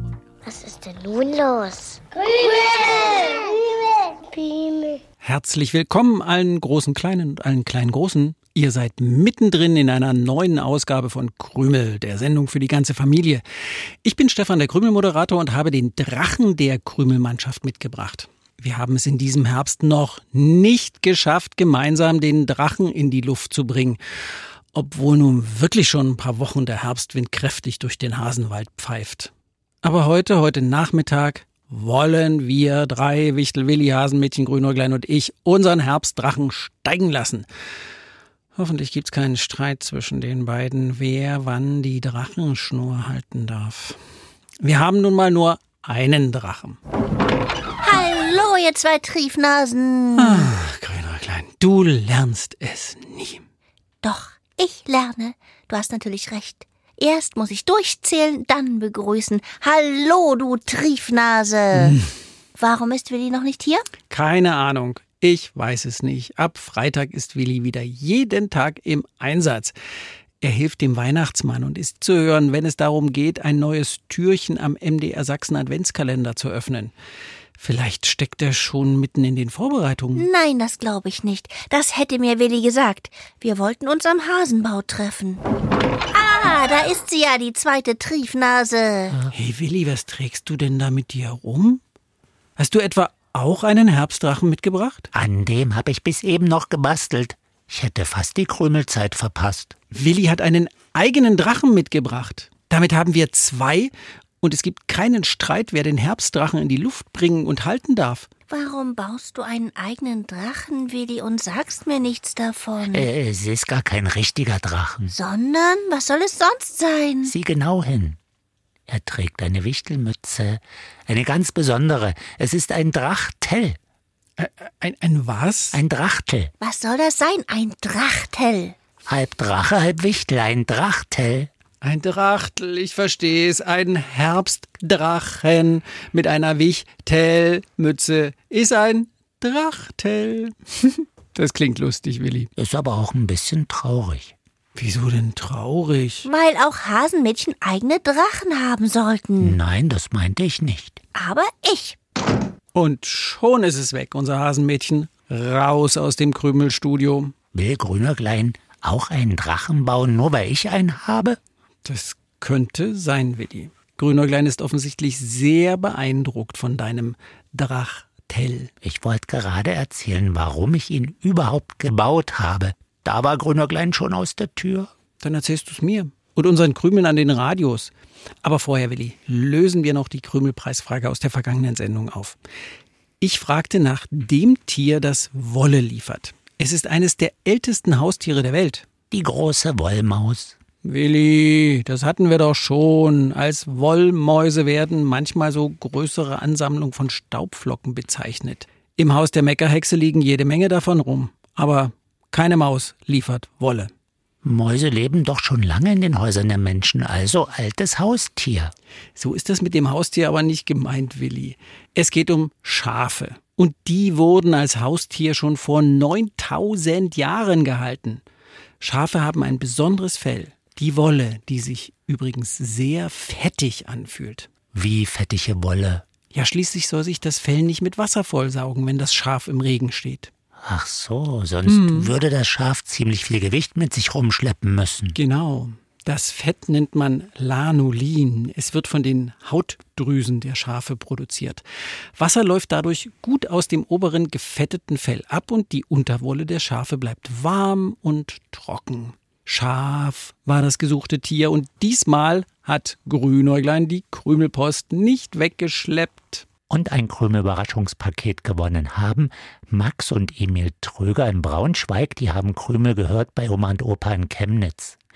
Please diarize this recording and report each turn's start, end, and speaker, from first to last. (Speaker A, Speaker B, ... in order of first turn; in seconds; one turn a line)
Speaker A: 0.4-5.0
Speaker B: 5.2-13.4
Speaker B: 14.0-24.0
Speaker B: 24.7-29.3
Speaker B: 29.8-37.5
Speaker B: 38.5-44.0
Speaker B: 44.6-46.8
Speaker C: 47.8-50.5
Speaker B: 50.1-53.4
Speaker C: 54.0-62.0
Speaker C: 62.5-63.9
Speaker B: 64.1-69.7
Speaker B: 70.4-76.9
Speaker B: 77.6-80.3
Speaker C: 80.2-85.4
Speaker C: 86.1-89.2
Speaker B: 89.3-91.8
Speaker B: 92.6-95.1
Speaker D: 95.1-99.7
Speaker B: 99.9-108.3
Speaker C: 108.5-113.1
Speaker D: 112.9-115.1
Speaker C: 115.1-117.3
Speaker D: 117.2-118.2
Speaker D: 118.9-123.8
Speaker B: 124.4-125.8
Speaker D: 125.7-126.5
Speaker C: 126.6-128.7
Speaker D: 129.1-131.5
Speaker B: 131.8-142.5
Speaker D: 142.6-144.3
Speaker B: 144.7-146.2
Speaker C: 146.2-149.6
Speaker D: 149.4-151.0
Speaker C: 151.1-152.0
Speaker B: 152.7-157.3
Speaker D: 157.5-161.4
Speaker B: 161.8-168.7
Speaker D: 168.8-174.9
Speaker B: 175.2-177.9
Speaker B: 178.4-182.4
Speaker B: 183.2-188.8
Speaker D: 189.1-190.6
Speaker B: 190.8-203.9
Speaker D: 204.4-208.7
Speaker B: 209.2-218.2
Speaker B: 218.8-224.5
Speaker D: 224.7-226.0
Speaker B: 226.3-230.3
Speaker D: 230.6-235.2
Speaker B: 231.7-232.1
Speaker B: 235.2-241.6
Speaker B: 242.2-256.4
Speaker D: 256.7-265.0